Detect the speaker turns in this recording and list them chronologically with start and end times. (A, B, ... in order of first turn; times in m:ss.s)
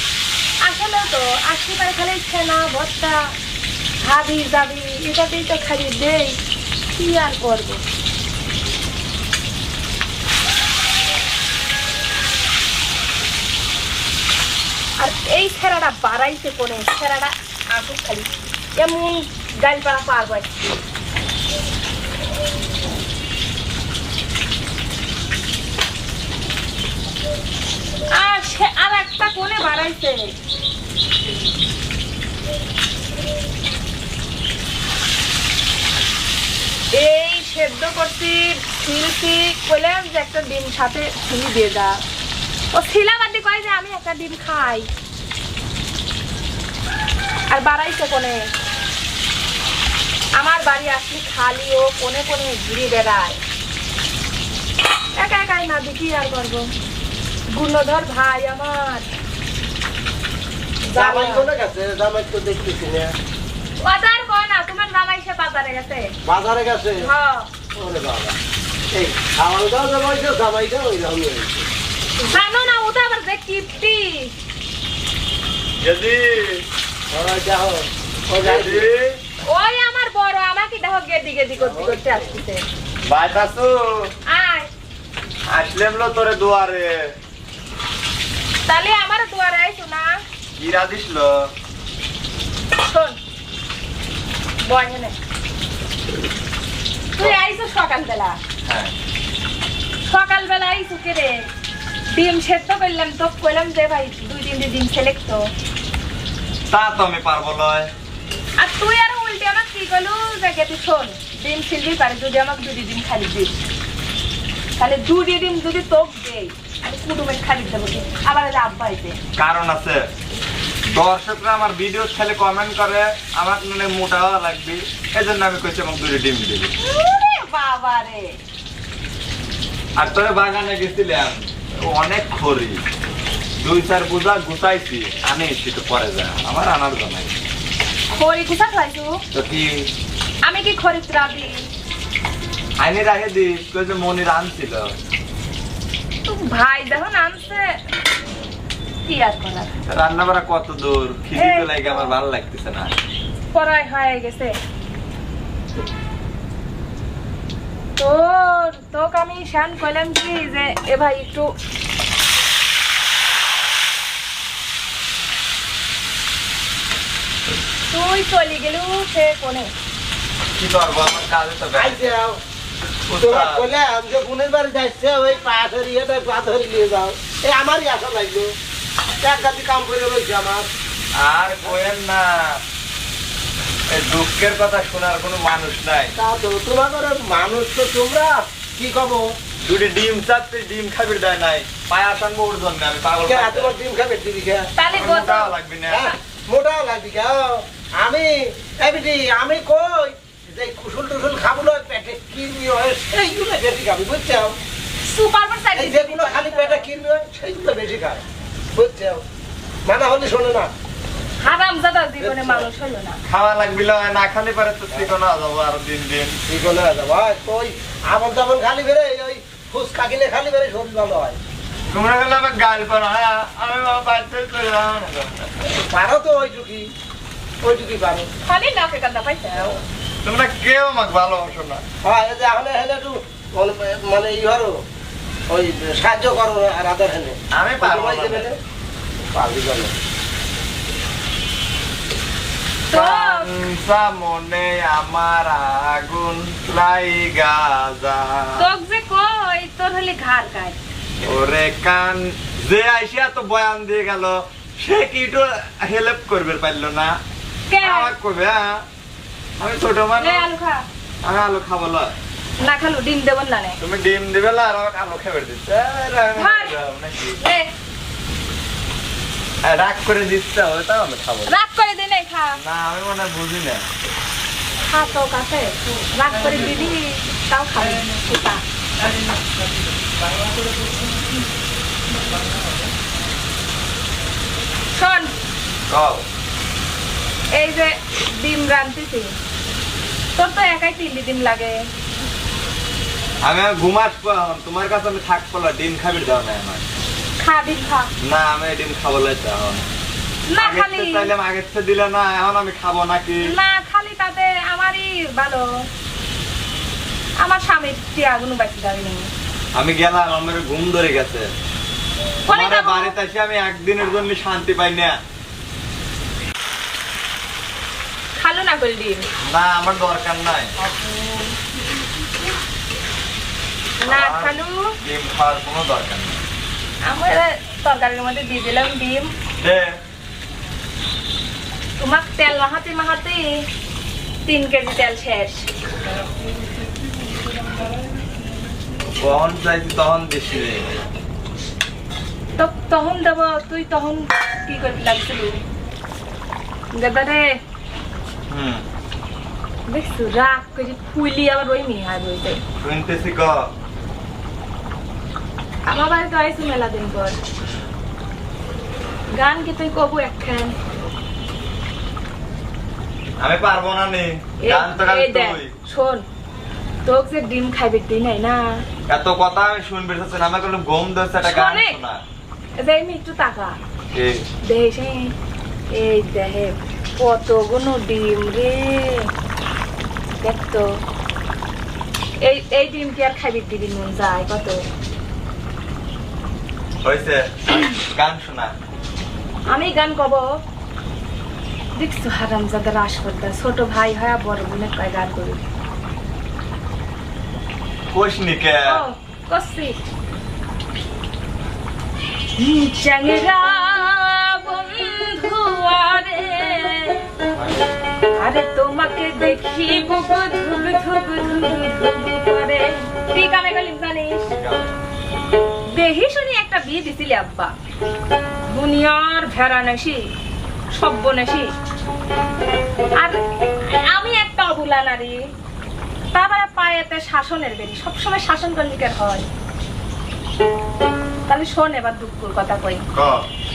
0:00.6-0:03.3 A
0:04.0-0:06.4 A
0:06.9-0:07.8 A
0:15.0-0:20.5 A
0:28.2-0:30.3 A
0:36.9-0:42.0 A
0:42.7-0:44.9 A
0:47.5-0:48.5 A
0:50.4-0:53.4 A
0:55.2-0:56.7 A
0:57.5-0:59.1 A
1:00.8-1:01.5 A
1:01.0-1:03.1 B
1:03.8-1:06.1 A
1:06.2-1:07.0 B
1:07.0-1:07.5 A
1:07.8-1:08.4 B
1:08.9-1:11.7 B
1:12.2-1:14.3 A
1:15.8-1:16.6 C
1:17.1-1:18.9 B
1:18.4-1:19.2 C
1:19.5-1:22.6 A
1:21.6-1:22.2 B
1:23.1-1:24.1 C
1:24.3-1:24.7 A
1:25.5-1:27.1 C
1:28.7-1:30.2 A
1:30.6-1:31.5 C
1:32.8-1:33.2 A
1:34.6-1:35.2 A
1:37.2-1:38.4 A
1:38.7-1:38.9 C
1:40.0-1:41.5 A
1:42.1-1:45.5 A
1:46.7-1:47.9 C
1:48.6-1:53.5 A
1:54.8-1:59.2 A
1:59.4-2:00.0 C
2:00.9-2:06.7 C
2:06.8-2:08.4 A
2:10.0-2:12.8 C
2:13.6-2:17.3 C
2:18.1-2:19.2 A
2:19.3-2:19.9 C
2:20.4-2:21.7 A
2:22.8-2:24.9 C
2:26.2-2:27.8 A
2:29.0-2:29.8 A
2:29.9-2:32.9 C
2:31.3-2:32.2 A
2:33.5-2:34.6 A
2:38.0-2:41.6 A
2:47.9-2:49.7 A
2:50.6-2:52.1 C
2:51.7-2:52.4 B
2:53.1-2:53.7 C
2:53.2-2:58.5 B
2:59.2-3:00.7 B
3:01.2-3:02.6 C
3:03.9-3:06.1 C
3:06.2-3:09.2 B
3:09.6-3:13.7 C
3:13.2-3:14.7 B
3:14.8-3:15.5 A
3:15.0-3:16.1 C
3:15.9-3:24.6 B
3:25.1-3:26.9 A
3:25.7-3:28.2 B
3:28.8-3:29.2 B
3:29.8-3:30.7 B
3:31.4-3:33.2 A
3:32.2-3:32.7 B
3:33.2-3:36.4 C
3:36.5-3:41.4 B
3:41.9-3:45.5 C
3:45.9-3:46.9 B
3:47.6-3:48.3 B
3:48.4-3:49.8 A
3:50.2-3:51.8 C
3:52.0-3:54.8 B
3:55.5-3:58.6 B
3:57.5-3:58.5 C
3:59.3-3:59.9 B
4:02.9-4:03.5 A
4:02.9-4:08.7 C
4:08.6-4:10.8 A
4:11.2-4:17.2 C
4:17.7-4:18.1 A
4:17.8-4:18.8 C
4:19.6-4:20.5 C
4:20.2-4:20.8 A
4:21.2-4:22.1 C
4:22.6-4:23.8 A
4:23.8-4:27.4 C
4:26.4-4:26.8 A
4:27.4-4:27.7 A
4:29.6-4:31.5 C
4:31.4-4:32.6 A
4:32.6-4:33.9 C
4:34.8-4:38.6 A
4:44.9-4:45.3 A
4:45.9-4:46.2 C
4:47.5-4:49.4 A
4:50.4-4:51.9 A
4:53.4-4:56.8 C
4:57.4-4:58.1 A
4:58.2-4:59.9 C
5:00.5-5:01.3 A
5:00.6-5:03.5 C
5:03.4-5:05.9 A
5:07.4-5:09.3 A
5:09.7-5:11.5 C
5:12.5-5:13.1 A
5:12.5-5:15.2 C
5:18.4-5:19.2 A
5:19.4-5:20.7 C
5:20.8-5:21.5 A
5:24.0-5:24.9 A
5:24.0-5:26.4 C
5:27.0-5:29.3 A
5:29.6-5:29.9 C
5:32.0-5:33.6 A
5:34.4-5:35.7 A
5:39.2-5:40.9 C
5:42.6-5:45.6 A
5:46.9-5:47.5 A
5:48.5-5:48.8 C
5:49.9-5:52.6 A
5:52.8-5:53.6 C
5:55.9-5:57.4 A
5:57.6-5:57.9 C
5:59.4-6:00.7 A
6:03.4-6:05.7 C
6:04.6-6:06.2 A
6:07.0-6:08.8 A
6:09.1-6:12.2 C
6:11.4-6:12.0 A
6:12.8-6:13.8 A
6:14.1-6:14.4 C
6:14.6-6:15.3 A
6:15.9-6:19.3 A
6:20.4-6:20.9 A
6:22.4-6:24.8 A
6:27.0-6:28.7 C
6:29.7-6:30.6 A
6:32.0-6:35.6 A
6:38.1-6:39.0 C
6:38.9-6:40.0 A
6:42.6-6:47.2 A
6:47.5-6:47.9 C
6:48.4-6:54.5 A
6:54.5-6:55.0 C
6:55.9-6:57.7 A
6:58.7-7:00.2 A
7:00.9-7:01.6 A
7:03.2-7:05.4 A
7:06.3-7:09.4 A
7:11.5-7:13.0 A
7:13.1-7:13.4 C